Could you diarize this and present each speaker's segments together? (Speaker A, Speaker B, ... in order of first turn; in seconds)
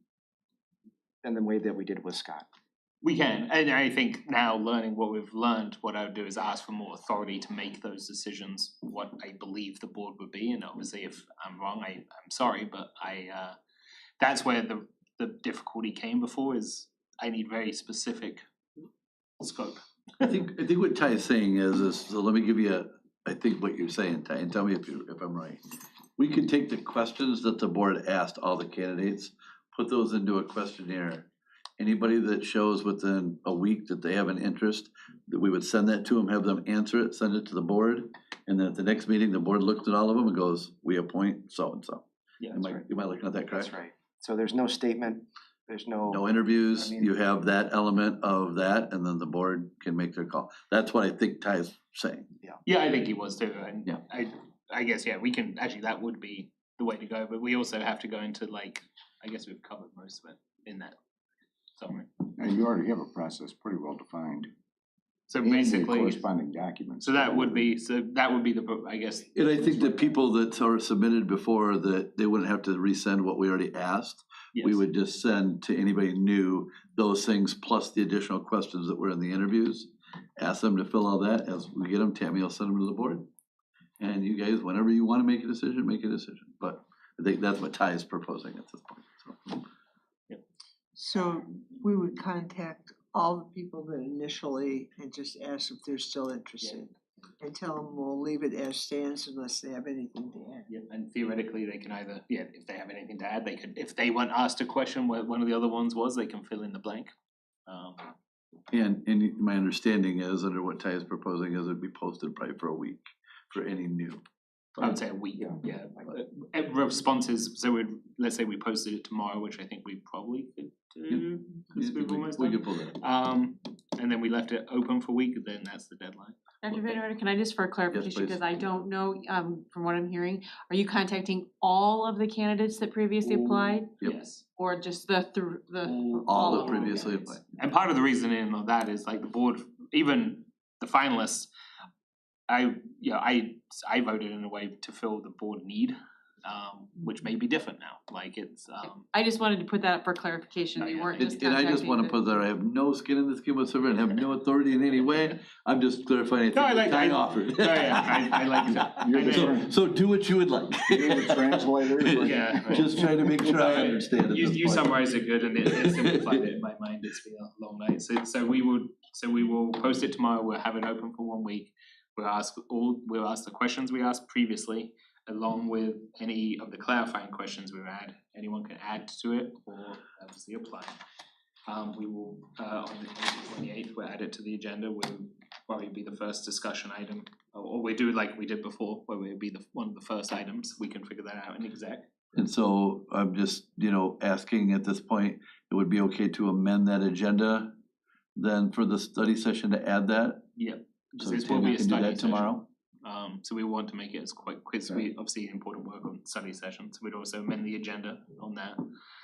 Speaker A: 1.2-2.5, 43.4-47.1
Speaker B: 3.0-13.6, 14.2-18.4, 19.4-20.3, 42.4-42.7, 52.7-61.0, 61.8-62.1, 65.3-66.2, 67.0-70.2, 74.5-74.8, 100.7-107.1, 107.7-108.1, 114.8-126.4, 133.2-134.5, 135.8-141.5, 142.5-149.1, 150.8-151.4, 156.5-159.6, 162.2-180.9, 181.7-192.1, 200.6-208.8
Speaker C: 20.2-25.6, 26.2-31.3, 31.8-43.7, 46.1-52.3, 69.3-83.3, 84.0-89.6, 108.7-114.2, 121.8-123.0, 127.9-128.4, 136.3-137.4, 151.2-164.9, 165.8-166.4, 192.3-197.8, 198.4-200.5, 201.2-202.7
Speaker D: 62.3-64.5, 65.4-67.7, 159.0-159.7, 160.9-163.2
Speaker E: 91.0-100.7
Speaker F: 126.6-133.9, 134.6-137.4, 149.1-152.2